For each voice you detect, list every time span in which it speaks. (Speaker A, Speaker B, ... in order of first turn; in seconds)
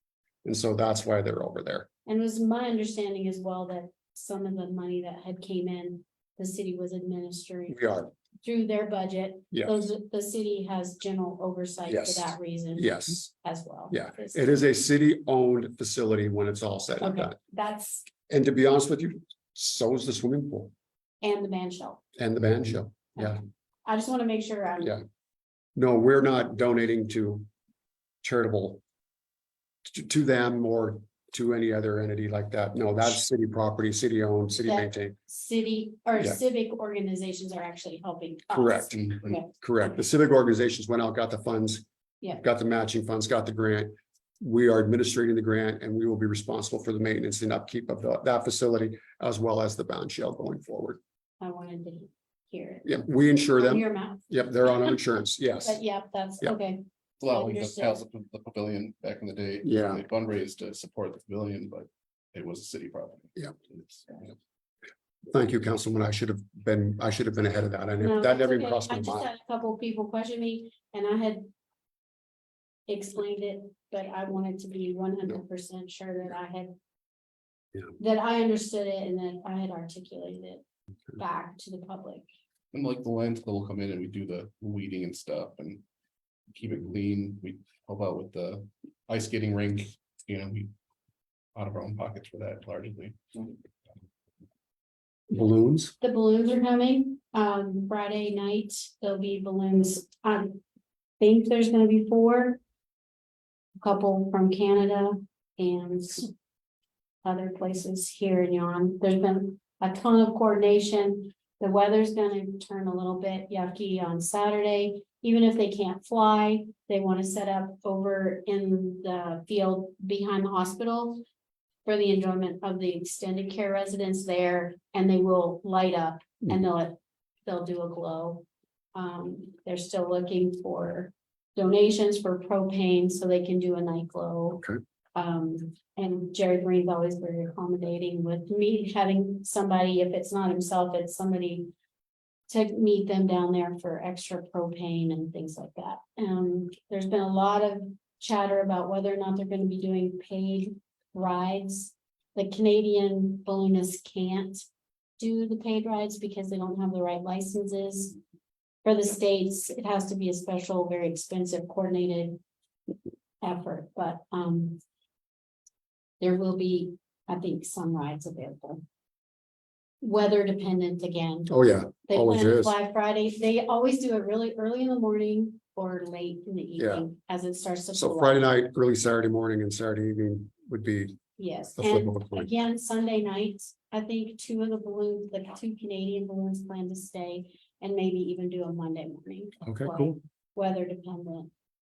Speaker A: 0.4-1.9, 7.7-8.1, 9.5-9.8, 11.9-13.3, 13.9-17.4, 18.3-20.7, 22.2-23.4, 25.8-27.5, 28.2-28.8, 29.8-35.1, 38.5-41.8, 42.4-51.0, 52.8-55.8, 59.6-60.0, 65.3-69.3, 95.3-95.9, 171.5-172.7, 176.8-177.1, 177.9-181.2, 181.8-182.5, 189.6-190.2
Speaker B: 2.0-7.8, 8.4-14.7, 17.0-18.1, 21.2-22.0, 23.1-25.0, 34.6-39.5, 51.4-55.0, 55.6-58.0, 68.0-71.5, 72.9-76.7, 78.0-80.6, 81.2-82.3, 96.0-100.6, 101.2-102.6, 103.8-106.3, 107.2-121.2, 121.8-134.6, 135.2-141.7, 142.5-154.6, 155.2-158.2, 158.8-162.4, 163.4-164.8, 166.2-168.8, 170.0-171.5, 172.1-178.4, 181.4-191.5
Speaker C: 57.2-64.3, 82.7-85.8, 86.5-90.7, 91.5-93.5